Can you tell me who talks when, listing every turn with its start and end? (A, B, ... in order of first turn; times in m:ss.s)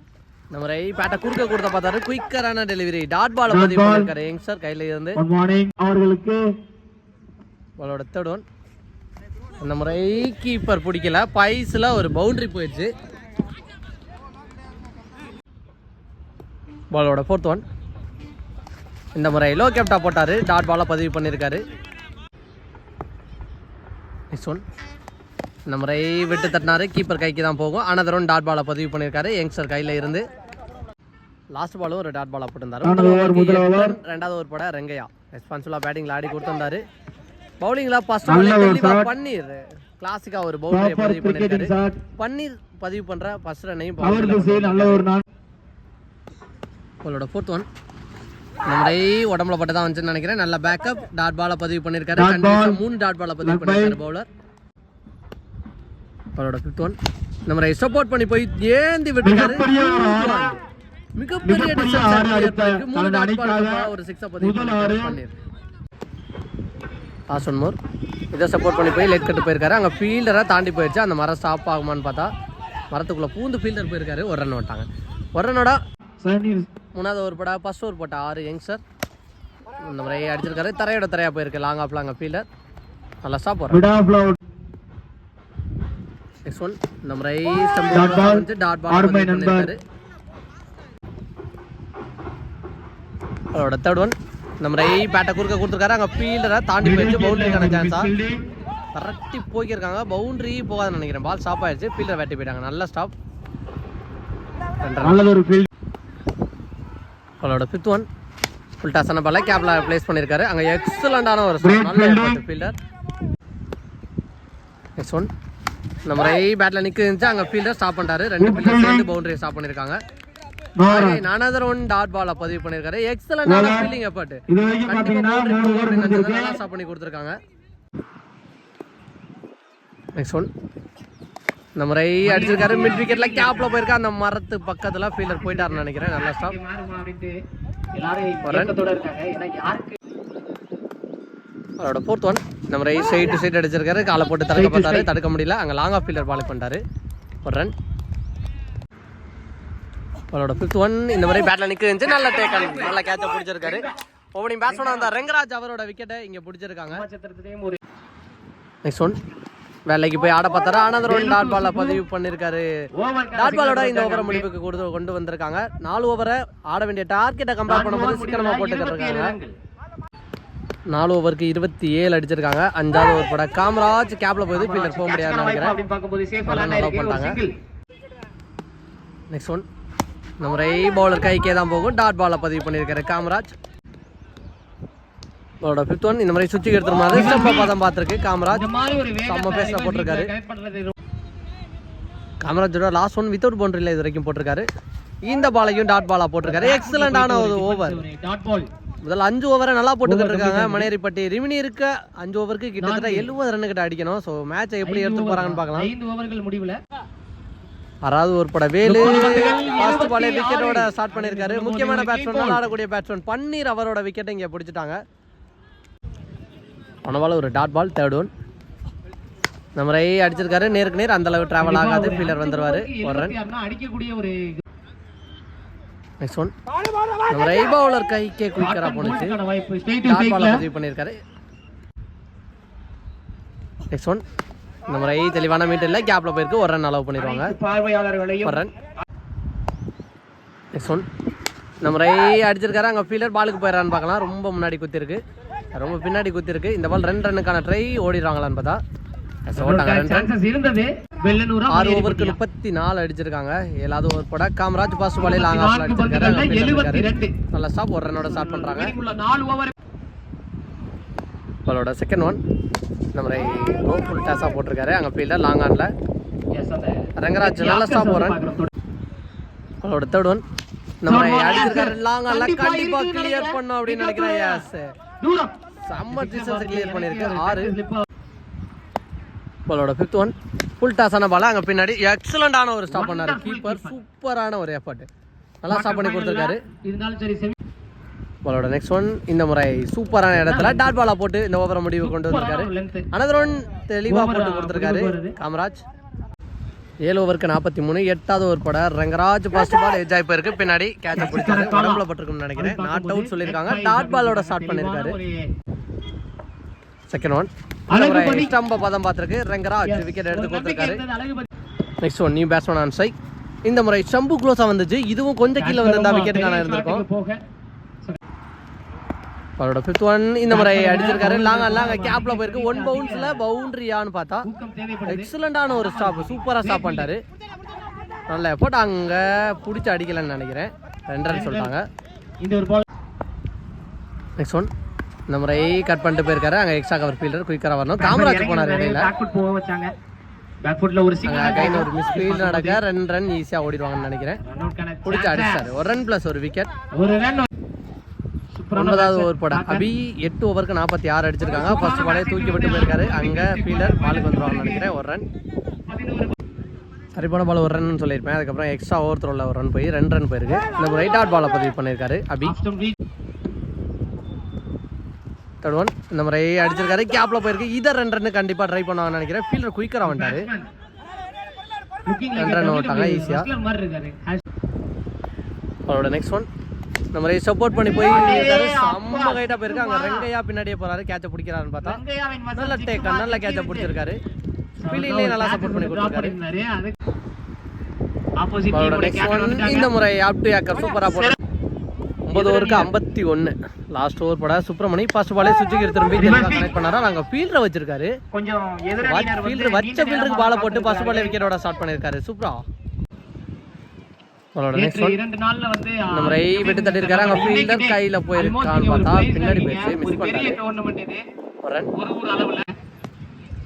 0:00.5-0:05.2 A
0:03.5-0:04.1 B
0:05.2-0:06.4 B
0:07.8-0:08.4 A
0:09.6-0:12.9 A
0:16.9-0:17.6 A
0:19.2-0:21.6 A
0:24.3-0:24.6 A
0:25.7-0:30.2 A
0:31.5-0:36.8 A
0:32.8-0:34.0 B
0:37.6-0:45.0 A
0:38.3-0:39.1 B
0:40.7-0:42.0 B
0:44.0-0:45.2 B
0:47.0-0:47.6 A
0:48.7-0:54.3 A
0:52.2-0:52.8 B
0:53.4-0:54.0 B
0:56.4-0:57.0 A
0:57.5-1:00.6 A
0:59.2-1:00.5 B
1:01.2-1:05.4 A
1:01.4-1:03.9 B
1:04.4-1:05.2 B
1:07.3-1:07.8 A
1:08.3-1:12.3 A
1:12.9-1:15.8 A
1:16.2-1:16.7 B
1:16.9-1:18.8 A
1:19.8-1:22.4 A
1:23.2-1:23.8 A
1:23.7-1:24.4 B
1:26.5-1:29.8 A
1:27.9-1:29.7 B
1:33.5-1:38.1 A
1:36.8-1:38.4 B
1:39.0-1:43.1 A
1:44.8-1:45.2 A
1:45.0-1:45.7 B
1:47.4-1:48.0 A
1:48.8-1:52.7 A
1:51.6-1:52.4 B
1:55.0-1:55.3 A
1:56.1-2:00.0 A
1:58.4-1:59.0 B
2:00.8-2:01.2 B
2:00.9-2:07.4 A
2:03.4-2:03.9 B
2:04.5-2:06.6 B
2:10.2-2:10.5 A
2:11.8-2:16.6 A
2:12.2-2:13.8 C
2:15.3-2:17.3 C
2:18.0-2:20.0 C
2:18.4-2:18.7 A
2:21.8-2:26.8 A
2:24.6-2:25.1 B
2:27.4-2:27.7 A
2:30.3-2:37.0 A
2:32.2-2:33.0 C
2:33.6-2:33.9 C
2:34.7-2:35.1 C
2:36.9-2:37.8 C
2:38.8-2:39.1 A
2:39.9-2:42.7 A
2:41.0-2:42.0 C
2:43.0-2:44.5 C
2:43.4-2:49.4 A
2:47.7-2:49.5 C
2:50.9-2:55.8 A
2:54.5-2:57.5 C
2:56.5-2:57.4 A
2:59.3-2:59.6 A
3:00.4-3:03.5 A
3:05.6-3:08.6 A
3:07.1-3:07.7 C
3:08.5-3:10.9 C
3:09.3-3:10.3 A
3:12.4-3:14.6 A
3:15.3-3:18.0 A
3:16.4-3:18.7 C
3:19.0-3:25.9 A
3:20.0-3:20.9 C
3:22.8-3:23.3 C
3:24.8-3:26.8 C
3:28.0-3:35.0 A
3:28.8-3:32.7 C
3:37.0-3:38.3 A
3:39.8-3:43.4 A
3:41.6-3:44.6 C
3:46.2-3:46.5 A
3:47.3-3:49.3 A
3:48.6-3:50.6 C
3:50.0-3:51.2 A
3:53.9-3:54.2 A
3:54.9-3:57.5 A
3:57.2-3:58.6 C
3:58.4-3:58.7 A
4:00.8-4:01.0 A
4:01.8-4:05.2 A
4:05.7-4:08.8 A
4:09.5-4:10.3 A
4:09.6-4:12.4 C
4:11.7-4:18.9 A
4:15.2-4:17.3 C
4:18.2-4:19.7 C
4:21.7-4:22.4 A
4:23.2-4:25.9 A
4:26.6-4:28.7 C
4:27.2-4:28.4 A
4:29.8-4:30.4 A
4:31.0-4:34.8 A
4:31.1-4:34.6 C
4:35.2-4:35.5 C
4:35.9-4:37.7 A
4:36.1-4:38.0 C
4:39.7-4:45.1 A
4:42.9-4:44.0 C
4:45.6-4:46.6 A
4:45.7-4:47.6 C
4:48.4-4:55.8 A
4:50.4-4:51.0 C
4:52.0-4:53.1 C
4:54.1-4:55.4 C
4:57.0-5:05.2 A
5:01.1-5:02.0 C
5:02.6-5:05.5 C
5:07.1-5:11.0 A
5:07.9-5:08.5 C
5:09.8-5:11.5 C
5:12.0-5:13.1 A
5:13.7-5:17.0 A
5:15.6-5:17.4 C
5:19.6-5:24.5 A
5:20.5-5:23.4 C
5:24.5-5:27.1 C
5:25.1-5:27.2 A
5:28.3-5:31.8 A
5:31.3-5:31.7 C
5:32.4-5:32.8 C
5:34.4-5:34.7 A
5:35.3-5:39.1 A
5:38.0-5:39.9 C
5:40.6-5:42.8 C
5:41.3-5:44.4 A
5:44.4-5:45.7 C
5:45.0-5:46.7 A
5:47.0-5:47.5 C
5:48.6-5:49.8 C
5:48.8-5:55.2 A
5:51.5-5:54.9 C
5:55.9-5:56.4 C
5:57.2-6:02.6 A
6:02.4-6:03.0 C
6:05.6-6:10.5 A
6:10.0-6:10.7 C
6:12.1-6:14.4 C
6:12.4-6:13.5 A
6:15.9-6:16.5 A
6:17.1-6:22.0 A
6:18.1-6:20.3 C
6:21.8-6:23.9 C
6:22.6-6:24.2 A
6:24.8-6:27.0 C
6:24.9-6:26.4 A
6:28.4-6:29.9 C
6:28.7-6:31.4 A
6:31.1-6:31.4 C
6:32.3-6:38.1 A
6:32.3-6:32.9 C
6:36.2-6:36.7 C
6:38.3-6:41.4 C
6:39.0-6:42.6 A
6:44.6-6:45.2 A
6:44.8-6:51.2 C
6:46.1-6:50.6 A
6:51.6-6:51.9 A
6:52.0-6:52.7 C